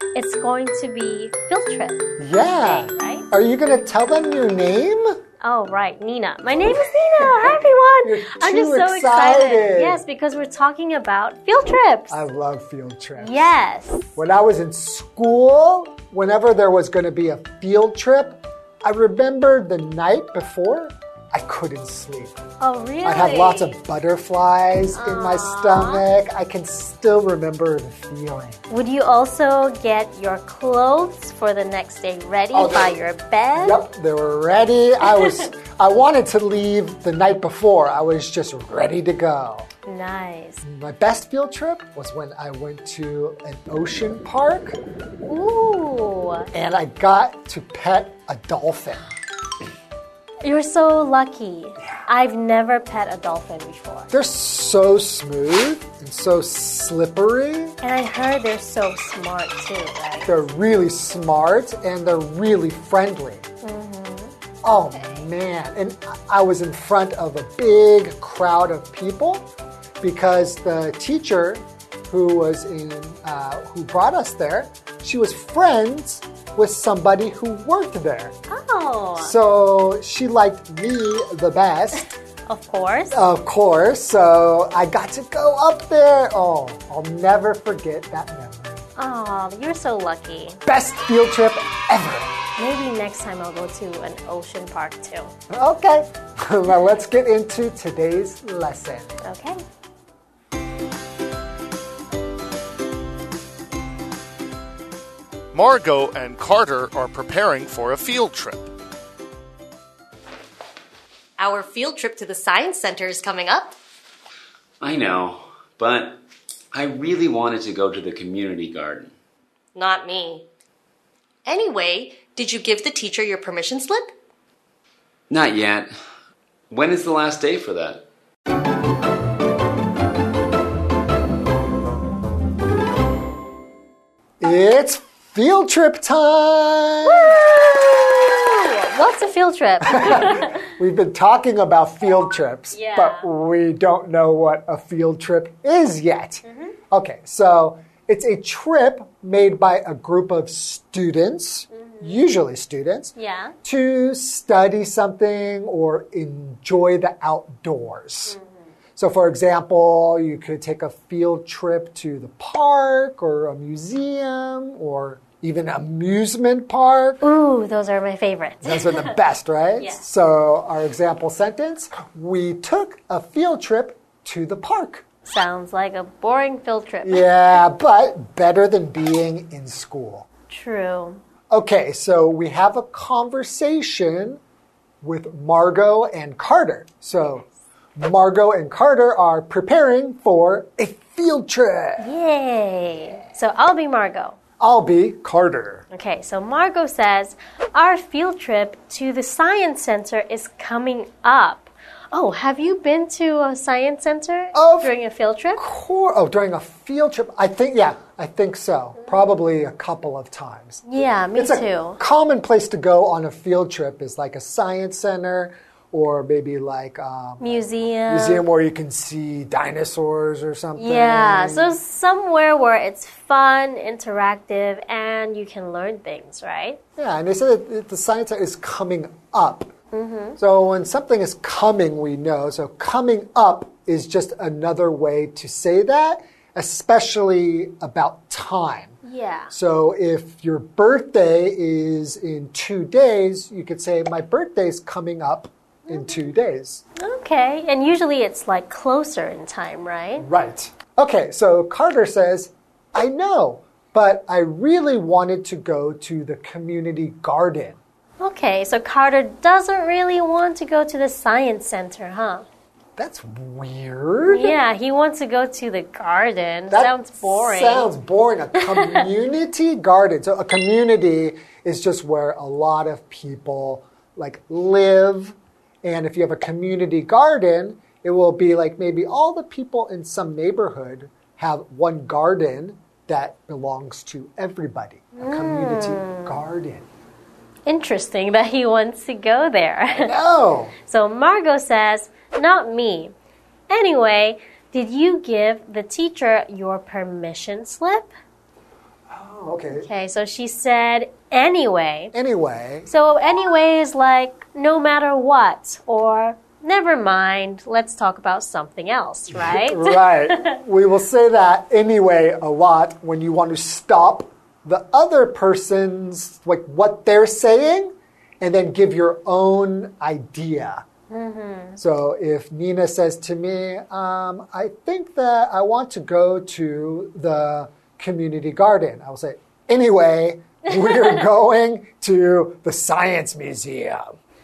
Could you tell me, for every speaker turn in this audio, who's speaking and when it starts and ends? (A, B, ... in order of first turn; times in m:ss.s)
0:00.1-0:03.2 A
0:02.2-0:05.2 B
0:05.4-0:12.2 A
0:08.0-0:10.0 B
0:12.1-0:13.5 B
0:13.2-0:14.1 A
0:14.1-0:22.4 B
0:22.6-0:23.8 A
0:23.0-0:28.6 B
0:24.9-0:26.0 A
0:28.7-0:33.8 A
0:32.5-0:33.0 B
0:33.5-0:39.7 B
0:39.8-0:40.6 A
0:40.6-0:44.8 B
0:45.2-0:46.5 A
0:46.5-0:49.0 B
0:50.4-0:54.1 A
0:54.1-0:57.8 B
0:57.8-1:00.3 A
1:00.3-1:03.4 B
1:03.6-1:04.3 A
1:04.6-1:09.4 B
1:04.9-1:05.2 A
1:10.0-1:18.3 B
1:18.5-1:19.3 A
1:19.2-1:22.1 B
1:22.5-1:23.1 A
1:23.1-1:28.9 B
1:29.0-1:30.6 A
1:30.6-1:32.3 B
1:32.6-1:35.3 A
1:35.5-1:39.1 B
1:39.2-1:39.6 A
1:45.5-1:48.7 C
1:51.4-1:53.8 D
1:54.8-1:59.1 E
1:59.7-2:00.5 D
2:01.4-2:04.1 D
2:05.3-2:05.9 E
2:06.7-2:08.1 E
2:14.4-2:17.4 B
2:17.1-2:20.5 A
2:19.8-2:38.4 B
2:22.7-2:23.3 A
2:26.4-2:26.8 A
2:31.7-2:32.2 A
2:33.2-2:33.5 A
2:38.3-2:38.5 A
2:39.0-2:47.2 B
2:47.2-2:49.2 A
2:48.6-2:55.0 B
2:49.8-2:50.0 A
2:55.2-2:57.2 A
2:57.0-3:00.3 B
3:00.5-3:01.2 A
3:01.5-3:04.4 B
3:05.0-3:12.1 B
3:12.0-3:14.4 A
3:14.6-3:15.8 B
3:15.9-3:25.6 A
3:24.5-3:25.0 B
3:25.6-3:30.8 B
3:30.9-3:32.0 A
3:31.3-3:41.8 B
3:37.4-3:38.4 A
3:40.8-3:46.8 A
3:47.0-3:49.7 B
3:49.9-3:50.4 A
3:50.4-3:59.0 B
3:59.0-3:59.5 A
3:59.5-4:06.8 B
4:05.9-4:06.2 A
4:07.0-4:10.3 A
4:10.2-4:17.8 B
4:18.2-4:22.4 A
4:23.0-4:24.6 B
4:24.3-4:27.9 A
4:26.7-4:46.9 B
4:28.6-4:29.0 A
4:45.2-4:46.4 A
4:47.7-4:50.1 A
4:49.9-4:50.7 B
4:50.8-4:53.1 A
4:53.7-4:58.1 A
4:59.1-4:59.9 B
4:59.7-5:02.1 A
5:02.1-5:02.9 B
5:02.9-5:10.4 A
5:09.3-5:20.8 B
5:21.1-5:21.8 A
5:21.8-5:34.2 B